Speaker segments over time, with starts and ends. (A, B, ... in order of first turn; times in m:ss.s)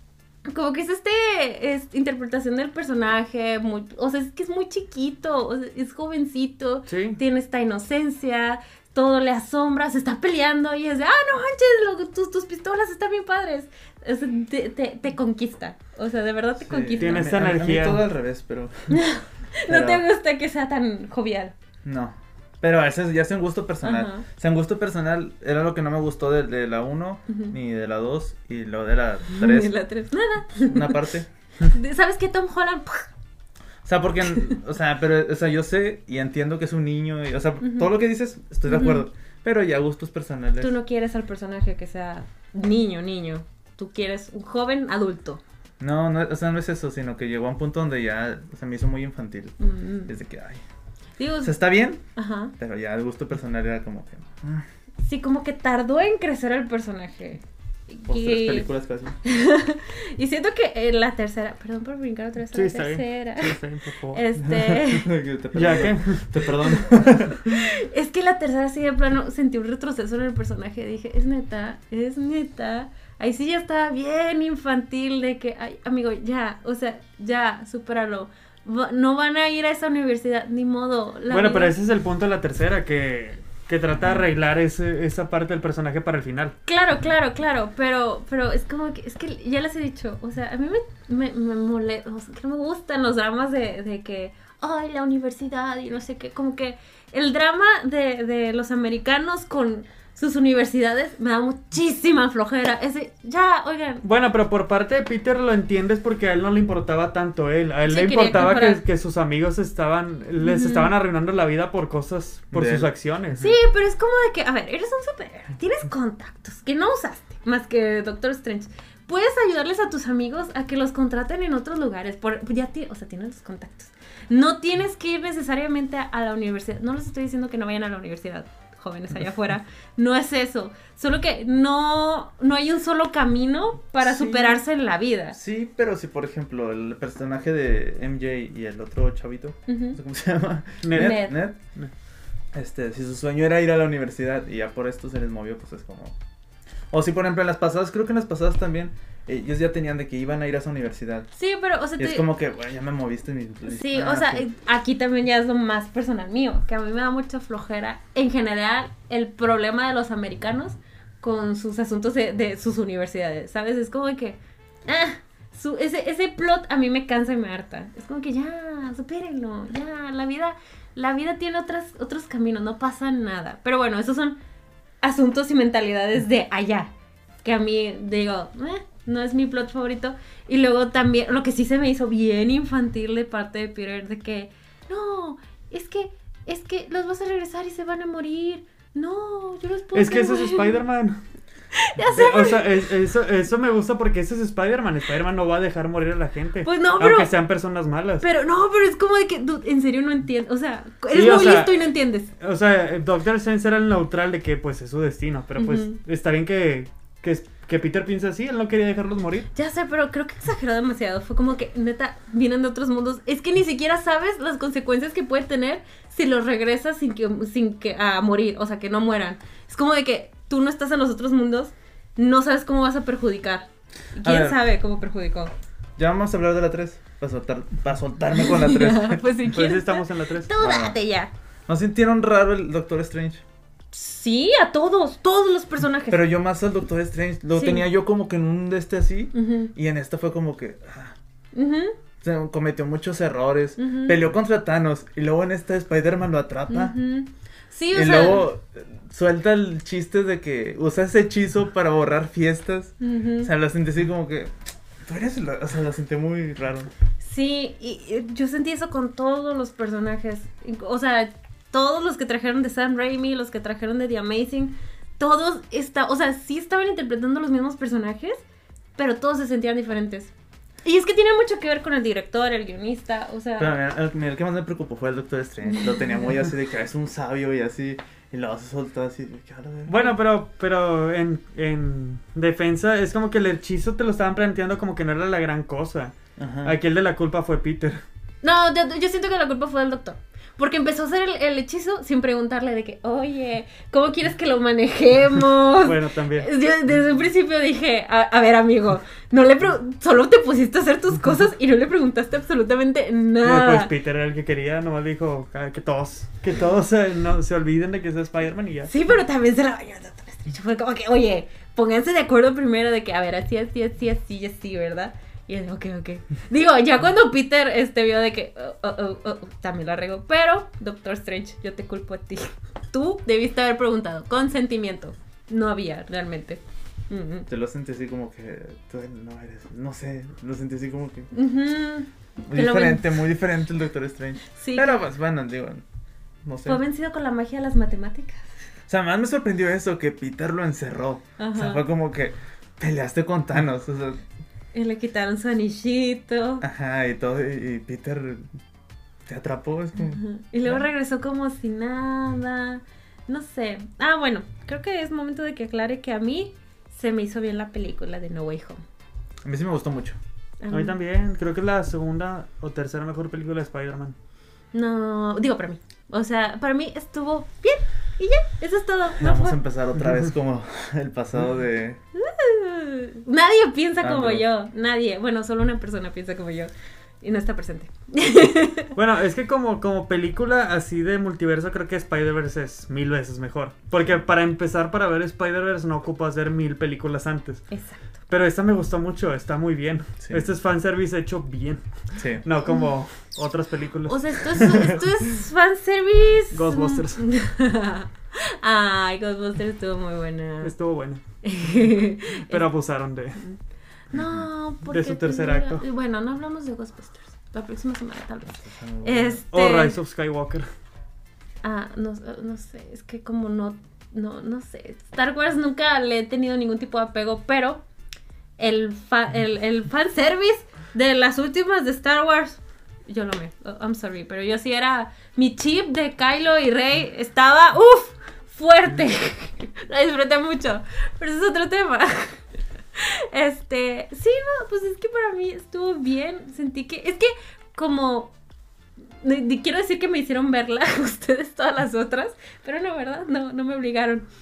0:00.5-0:17.3 A
0:06.9-0:07.2 B
0:16.6-0:19.0 C
0:17.0-0:18.1 B
0:18.9-0:21.5 A
0:19.7-0:20.0 C
0:21.8-0:29.8 C
0:23.8-0:24.2 A
0:29.3-0:31.1 A
0:30.6-0:31.3 C
0:31.6-0:33.1 A
0:33.8-0:40.7 C
0:38.7-0:39.0 A
0:40.6-0:45.4 A
0:45.8-0:50.6 C
0:49.6-0:50.1 A
0:51.2-0:51.6 A
0:51.4-0:52.0 C
0:52.2-0:52.5 A
0:52.6-0:54.7 C
0:55.0-0:58.7 A
0:58.1-0:59.2 C
0:59.2-1:03.6 A
1:02.5-1:04.2 B
1:04.1-1:05.1 A
1:04.4-1:07.6 C
1:05.5-1:06.6 B
1:06.9-1:21.7 A
1:21.3-1:26.6 B
1:24.0-1:24.2 C
1:26.7-1:44.0 A
1:44.0-1:53.6 B
1:47.8-1:48.8 A
1:50.4-1:50.9 A
1:52.5-1:52.9 C
1:53.4-2:15.4 A
2:15.3-2:21.6 C
2:19.7-2:20.0 A
2:20.8-2:21.9 B
2:20.9-2:21.4 A
2:22.5-2:26.2 C
2:26.9-2:31.3 C
2:31.3-2:32.2 A
2:32.0-2:34.5 C
2:33.7-2:54.4 A
2:55.0-2:56.9 A
2:57.4-3:10.8 A
3:09.9-3:11.2 B
3:11.7-3:12.9 A
3:12.2-3:18.2 B
3:16.6-3:17.3 A
3:18.2-3:22.3 A
3:21.1-3:21.9 B
3:22.4-3:29.5 B
3:25.6-3:26.0 A
3:29.6-3:45.5 A
3:44.2-3:44.6 C
3:46.0-3:49.2 C
3:48.4-3:51.3 A
3:49.5-3:50.5 B
3:50.6-3:51.0 C
3:51.7-3:53.4 C
3:53.9-3:56.3 A
3:56.1-4:01.2 C
3:57.6-3:57.9 A
3:59.3-3:59.7 A
4:01.5-4:02.0 A
4:02.2-4:07.0 C
4:03.8-4:04.2 A
4:06.7-4:08.5 A
4:07.9-4:16.9 C
4:13.0-4:13.5 A
4:17.2-4:28.4 A
4:29.0-4:30.3 A
4:30.8-4:33.8 A
4:33.6-4:40.0 C
4:39.9-4:48.0 B
4:46.4-4:46.8 C
4:48.4-5:03.9 A
4:55.8-4:56.5 B
5:03.4-5:08.9 B
5:08.9-5:27.5 A
5:27.5-5:31.3 C
5:31.3-5:33.2 A
5:32.4-5:35.8 C
5:34.6-5:35.0 A
5:36.4-5:36.8 C
5:36.6-5:38.5 A
5:38.9-5:44.2 C
5:41.4-5:41.9 A
5:44.7-5:46.6 A
5:46.6-5:48.5 C
5:49.2-5:50.8 C
5:50.1-5:58.8 A
5:59.4-6:00.2 C
6:00.6-6:01.0 A
6:00.7-6:04.2 B
6:04.7-6:09.6 A
6:09.2-6:12.0 C
6:12.2-6:18.9 A
6:14.0-6:14.4 C
6:19.0-6:27.6 B
6:27.7-6:28.0 A
6:28.3-6:31.8 B
6:30.2-6:30.5 C
6:32.2-6:32.4 C
6:32.4-6:34.9 B
6:34.1-6:40.7 A
6:36.5-6:37.3 B
6:40.6-6:41.2 B
6:41.4-6:42.7 A
6:42.5-6:43.4 B
6:44.1-6:44.4 C
6:44.1-6:50.0 A
6:44.8-6:45.8 B
6:48.5-6:49.4 C
6:49.5-6:50.7 B
6:51.6-6:57.8 A
6:58.6-7:12.4 A
7:13.0-7:18.3 A
7:19.2-7:24.2 A